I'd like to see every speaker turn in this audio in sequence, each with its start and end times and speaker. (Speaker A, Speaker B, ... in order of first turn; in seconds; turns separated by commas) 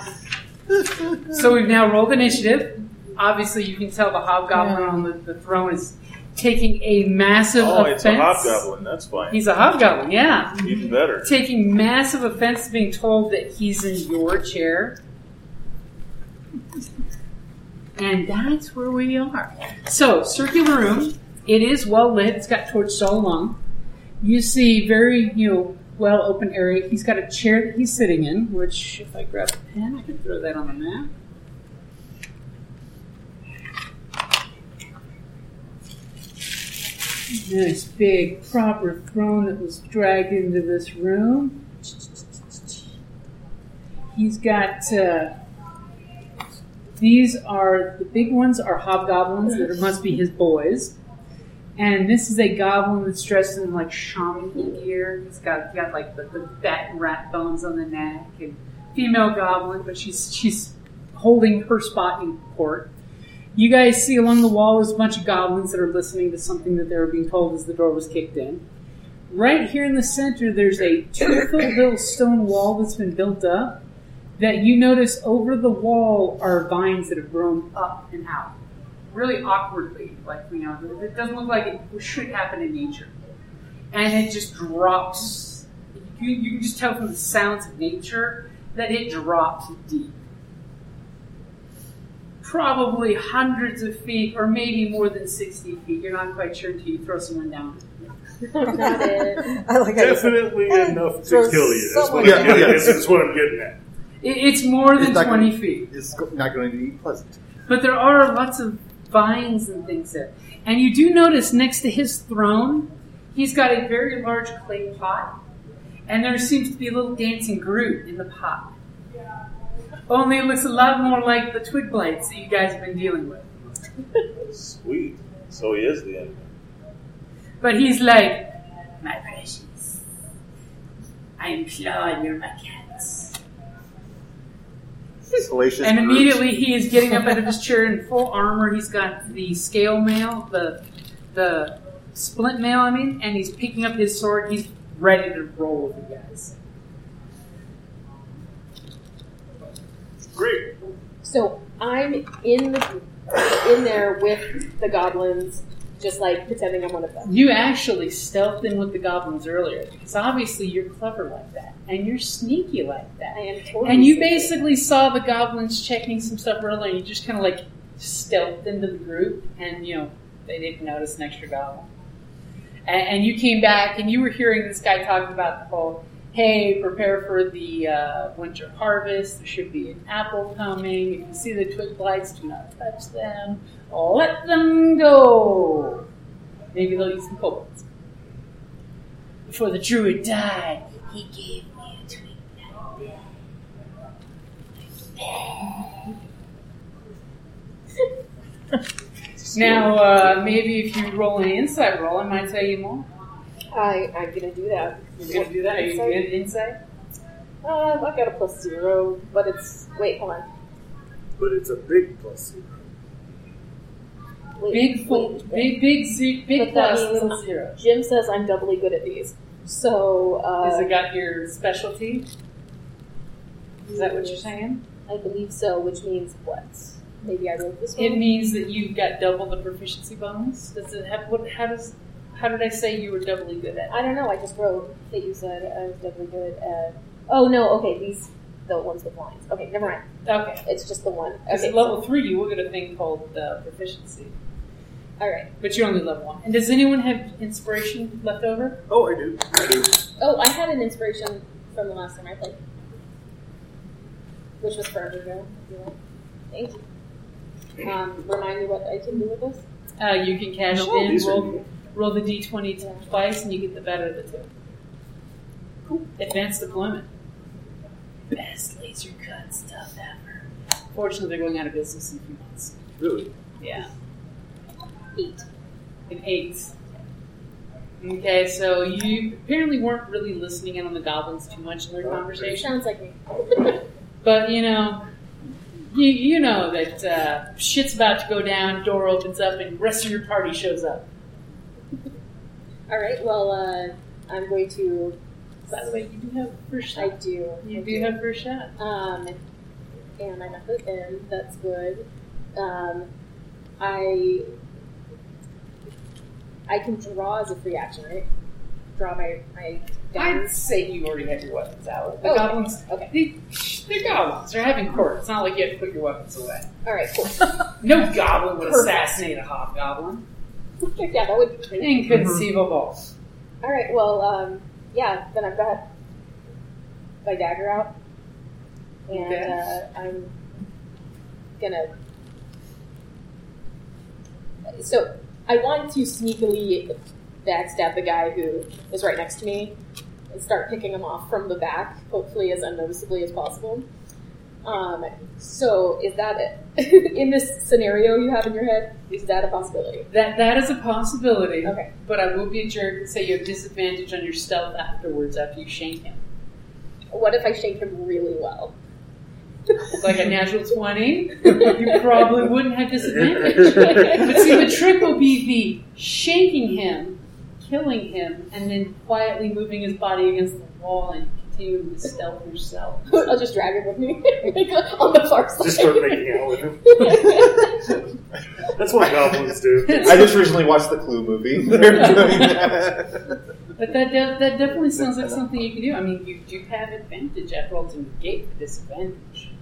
Speaker A: 1.3-8.7, Speaker B: 4.5-5.0, Speaker C: 7.6-9.4, Speaker A: 9.3-10.6, Speaker C: 10.6-11.3, Speaker A: 11.2-15.0, Speaker A: 18.0-23.6, Speaker A: 24.2-31.1, Speaker A: 37.3-41.7, Speaker A: 44.1-45.3, Speaker A: 47.0-51.0, Speaker A: 51.8-62.9, Speaker A: 63.5-68.6, Speaker A: 69.3-73.8, Speaker A: 74.4-78.6, Speaker A: 79.1-83.1, Speaker A: 83.9-90.2, Speaker A: 92.4-98.1, Speaker D: 98.5-99.6, Speaker B: 98.7-103.0, Speaker E: 99.9-103.8, Speaker F: 102.2-103.0, Speaker A: 104.2-105.9, Speaker F: 105.0-107.4, Speaker A: 107.7-115.4, Speaker A: 116.1-118.7, Speaker A: 120.1-123.5, Speaker C: 124.4-126.5, Speaker A: 127.6-130.0, Speaker A: 131.4-133.4, Speaker F: 135.3-136.4, Speaker A: 135.8-140.8, Speaker A: 141.3-146.6, Speaker E: 150.3-150.7, Speaker D: 151.2-157.3, Speaker A: 157.2-171.9, Speaker D: 163.3-164.6, Speaker A: 172.8-186.0, Speaker A: 186.7-187.9, Speaker A: 189.5-193.1, Speaker A: 195.2-195.9, Speaker A: 199.5-203.1, Speaker E: 199.7-199.9, Speaker D: 203.7-206.2, Speaker A: 205.2-206.8, Speaker D: 207.6-210.5, Speaker E: 211.4-212.9, Speaker D: 214.6-215.8, Speaker A: 214.7-217.8, Speaker D: 216.6-220.9, Speaker A: 220.6-222.3, Speaker D: 223.8-224.5, Speaker A: 223.9-224.8, Speaker D: 225.1-228.3, Speaker A: 228.0-234.0, Speaker D: 233.9-240.1, Speaker A: 240.2-240.7, Speaker D: 240.6-242.0, Speaker A: 241.5-244.3, Speaker D: 245.2-245.5, Speaker A: 245.6-248.8, Speaker E: 248.9-250.1, Speaker D: 250.2-252.6, Speaker D: 254.6-256.0, Speaker D: 256.5-256.9, Speaker D: 257.8-259.6, Speaker A: 260.0-264.5, Speaker E: 260.7-261.7, Speaker A: 266.0-267.1, Speaker A: 268.3-272.8, Speaker E: 273.0-273.3, Speaker A: 273.6-273.9, Speaker D: 275.2-275.4, Speaker A: 276.1-276.8, Speaker A: 278.0-282.8, Speaker E: 282.0-282.3, Speaker D: 282.4-283.8, Speaker A: 284.2-285.1, Speaker A: 285.9-291.1, Speaker D: 292.9-295.2, Speaker A: 295.7-298.7, Speaker D: 297.0-298.2, Speaker D: 298.8-299.4, Speaker D: 300.2-303.1, Speaker D: 303.8-304.5, Speaker D: 306.7-308.3, Speaker D: 308.9-310.5, Speaker A: 310.1-316.7, Speaker D: 312.2-313.1, Speaker D: 316.9-317.6, Speaker A: 317.8-320.2, Speaker D: 320.8-322.2, Speaker A: 321.8-323.0, Speaker D: 323.6-325.9, Speaker D: 327.2-328.0, Speaker A: 329.1-329.6, Speaker D: 329.1-330.4, Speaker D: 331.6-331.9, Speaker D: 334.8-339.8, Speaker D: 340.3-343.9, Speaker D: 344.6-350.1, Speaker A: 350.1-356.2, Speaker D: 351.6-351.9, Speaker D: 357.1-358.8, Speaker A: 359.9-373.3, Speaker D: 361.5-362.0, Speaker D: 363.4-364.7, Speaker D: 373.1-378.0, Speaker E: 375.6-377.5, Speaker E: 378.8-380.4, Speaker F: 380.0-383.3, Speaker A: 382.1-382.4, Speaker A: 383.8-389.5